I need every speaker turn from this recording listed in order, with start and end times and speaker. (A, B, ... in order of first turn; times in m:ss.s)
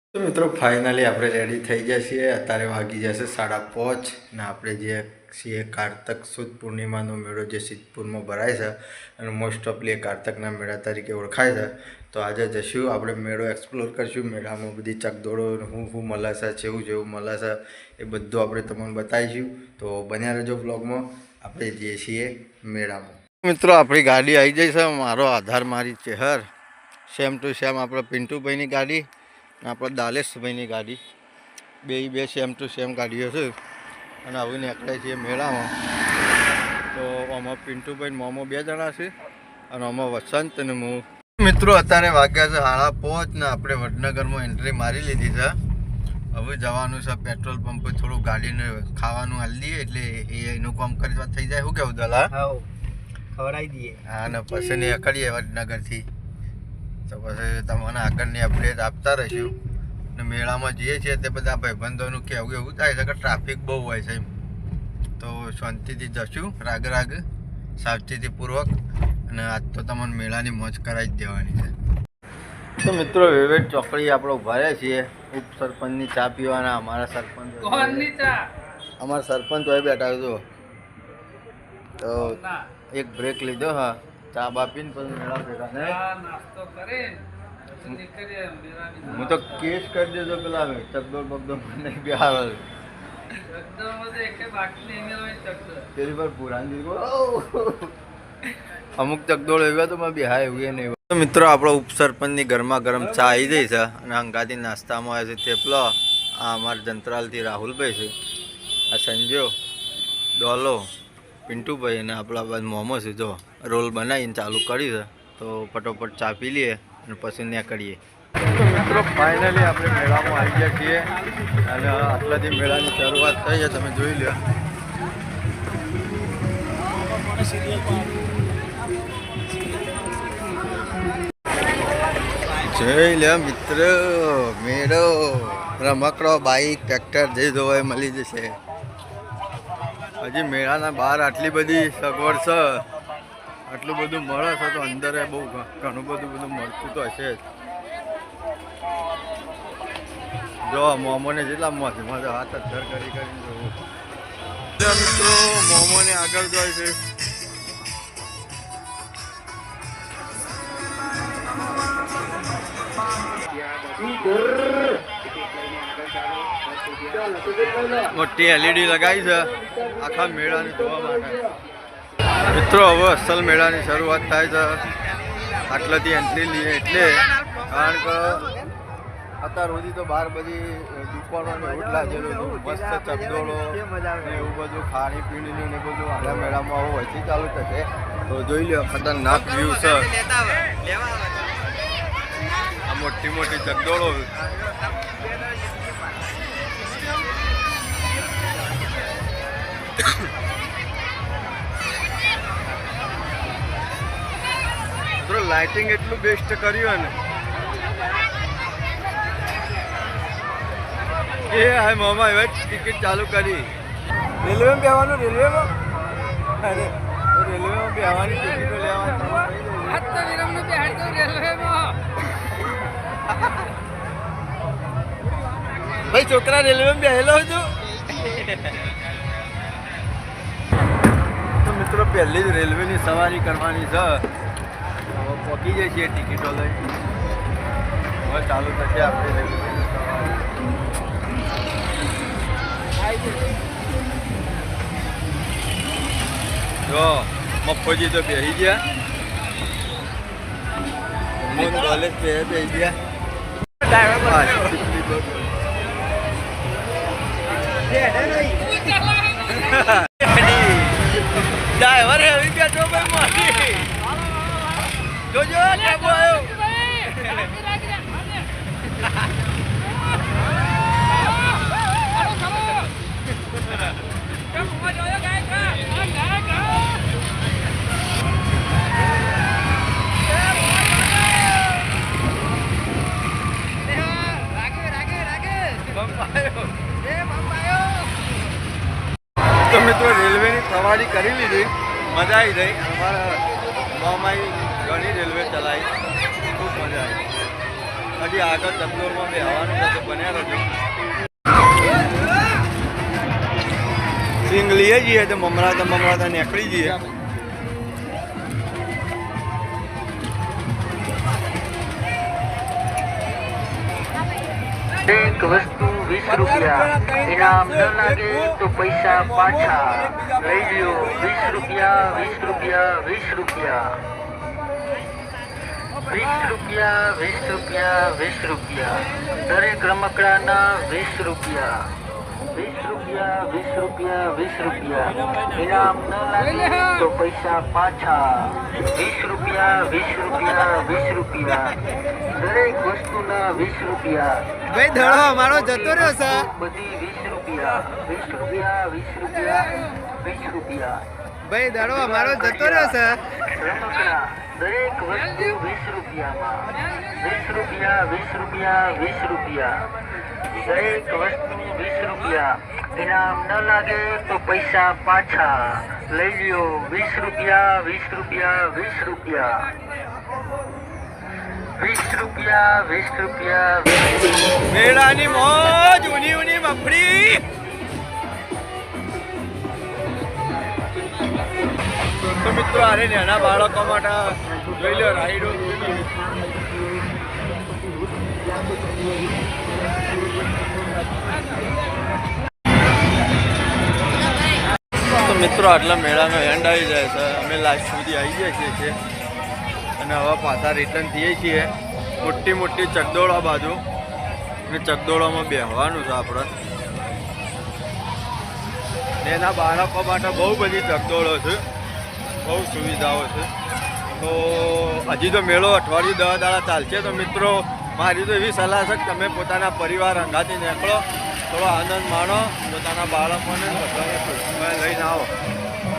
0:00.1-0:26.4 A
0:27.1-0:29.0 A
0:29.6-0:31.0 A
0:31.8-0:33.5 A
0:34.2-0:35.7 A
0:36.9-0:39.1 A
0:39.7-0:45.6 A
0:46.3-0:52.3 A
0:53.4-0:54.0 B
0:54.0-0:56.1 A
0:57.1-0:59.6 A
1:00.1-1:04.3 A
1:05.2-1:07.2 A
1:07.8-1:08.7 A
1:09.3-1:11.7 A
1:12.8-1:18.2 A
1:19.0-1:20.4 A
1:22.0-1:26.0 A
1:26.4-1:27.2 B
1:28.1-1:28.9 B
1:29.0-1:32.6 A
1:33.7-1:35.8 B
1:35.9-1:37.9 A
1:39.0-1:48.1 A
1:48.9-1:49.5 A
1:50.4-1:50.8 A
1:51.5-1:58.0 A
1:58.5-2:01.1 A
2:01.6-2:04.4 A
2:12.6-2:18.6 A
2:20.2-2:22.8 A
2:23.7-2:27.4 A
2:30.6-2:33.8 A
2:34.8-2:37.0 A
2:48.1-2:51.4 A
2:52.4-2:54.8 A
2:55.6-2:58.5 A
2:59.4-3:10.2 A
3:10.3-3:11.4 B
3:12.8-3:14.3 A
3:25.2-3:27.1 A
3:31.5-3:33.7 A
3:34.4-3:35.7 A
3:36.6-3:40.3 A
3:40.4-3:41.7 B
3:46.0-3:48.9 A
3:51.6-3:54.2 A
3:55.1-3:56.8 A
3:58.2-4:00.5 A
4:06.8-4:08.8 A
4:11.4-4:13.0 A
4:13.8-4:15.5 A
4:17.9-4:18.6 B
4:19.5-4:23.9 A
4:25.3-4:27.5 A
4:45.6-4:46.8 A
4:49.6-4:57.2 A
4:58.2-5:00.6 A
5:04.4-5:07.0 A
5:15.0-5:24.0 C
5:16.3-5:18.2 A
5:19.4-5:22.2 A
5:26.0-5:31.8 C
5:32.5-5:51.0 C
5:51.6-5:59.9 C
6:00.5-6:09.7 C
6:11.8-6:14.2 C
6:14.7-6:17.4 A
6:22.3-6:26.3 A
6:35.1-6:39.0 A
6:40.0-6:43.8 A
6:44.7-6:46.5 A
6:49.2-6:51.6 A
6:52.4-6:53.5 A
6:54.2-7:05.3 A